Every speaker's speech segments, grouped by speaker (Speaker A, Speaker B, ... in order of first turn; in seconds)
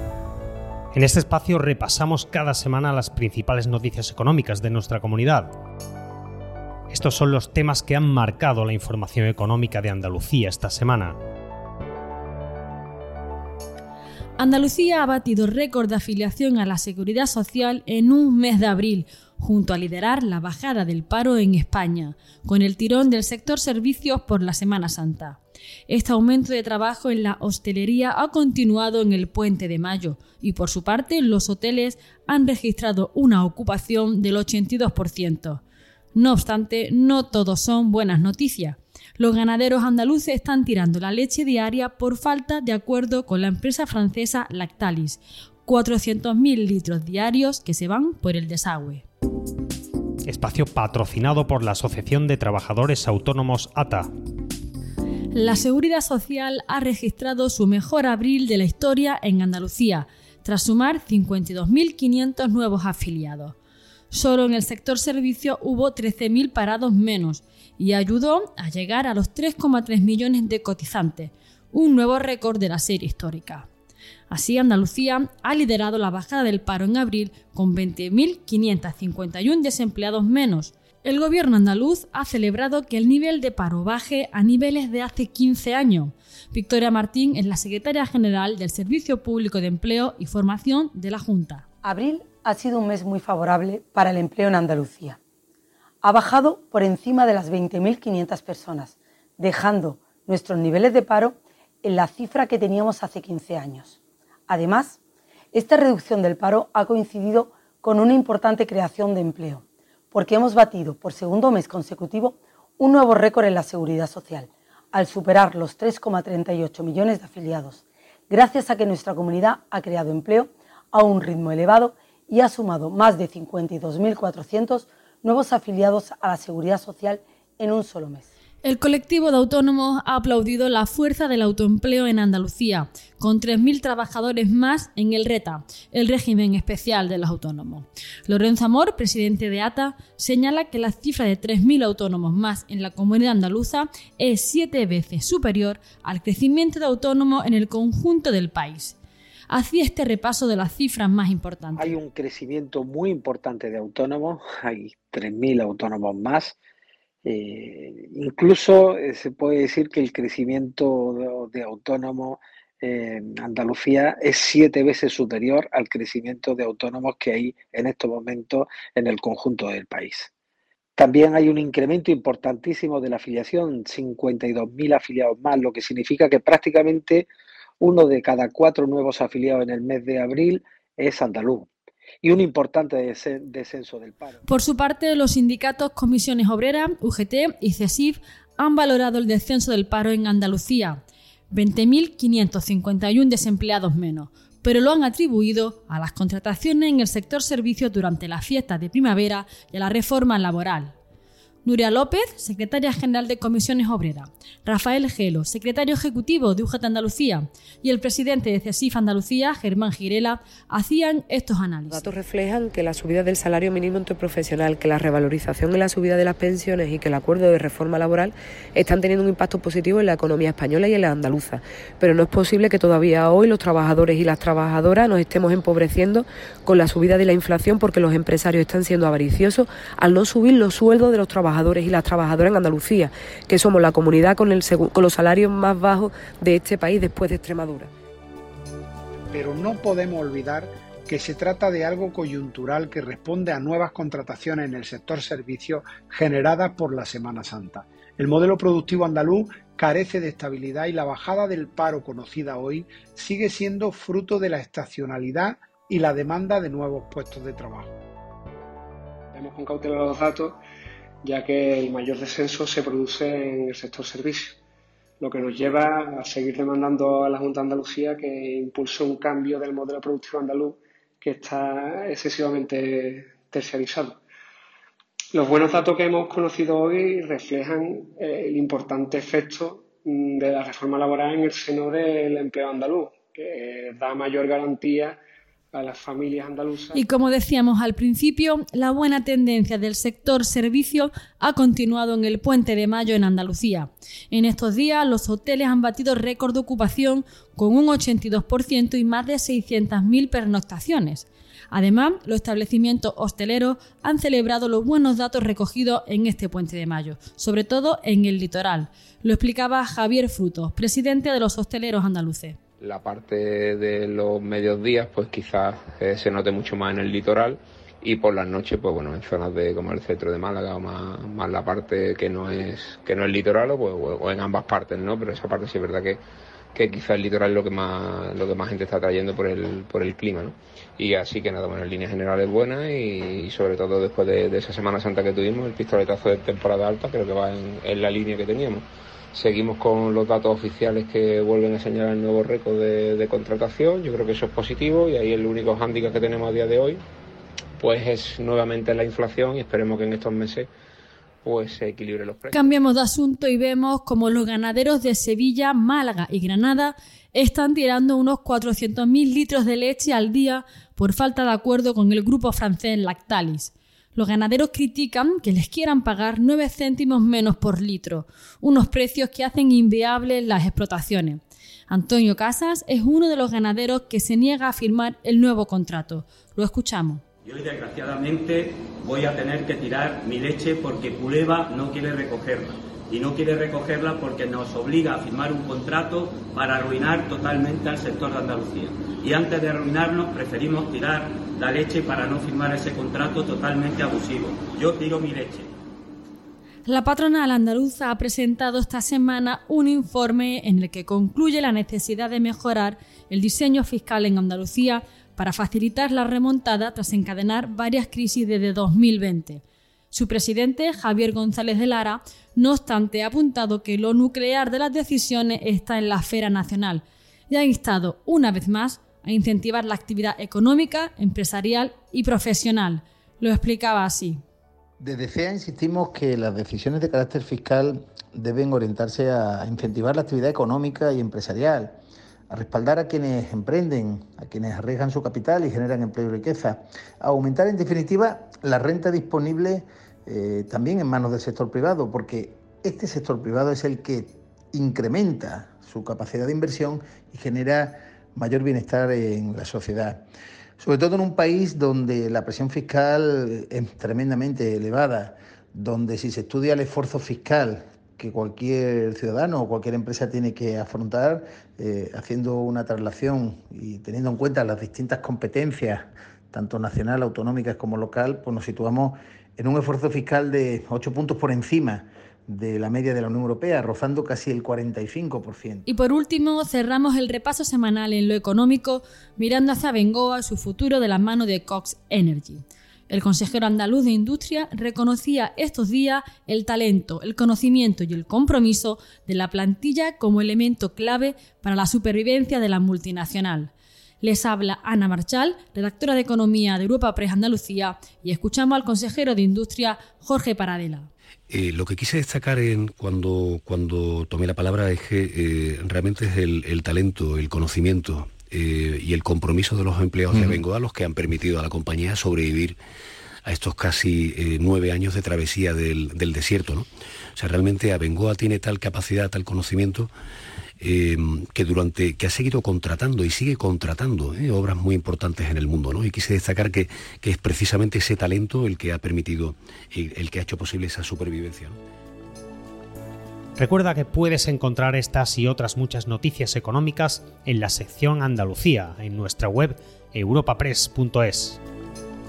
Speaker A: 0.9-5.5, 6.9-11.2, 50.2-54.1, 501.6-503.7, 504.3-505.4, 506.2-512.3, 514.2-516.8, 522.5-523.1, 523.8-525.0, 526.0-526.7, 527.8-528.3, 530.2-531.0, 533.6-541.6
Speaker B: 14.4-35.6, 36.1-49.0, 55.3-63.5, 64.1-73.7, 74.3-91.6, 128.6-149.0, 149.5-151.9, 184.5-191.0, 191.5-200.9, 201.6-212.1, 286.9-312.6, 352.5-377.2, 396.9-424.4, 475.9-493.7, 494.2-501.1
Speaker C: 91.8-95.2, 96.0-104.0, 104.5-105.0, 105.5-128.3
Speaker D: 151.8-156.5, 157.2-170.3, 171.0-177.3, 177.8-181.7, 182.2-184.4
Speaker E: 211.9-237.9
Speaker F: 239.3-257.9
Speaker G: 259.3-260.6, 261.2-264.5, 265.2-274.1, 275.3-285.1, 285.7-286.9
Speaker H: 312.8-326.2, 326.7-347.0, 347.8-350.7, 351.4-352.7
Speaker I: 377.4-395.7
Speaker J: 425.0-432.0, 432.5-450.2, 450.8-475.9
Speaker K: 501.8-507.9, 508.5-512.7, 513.5-516.8, 517.4-520.0, 520.8-531.7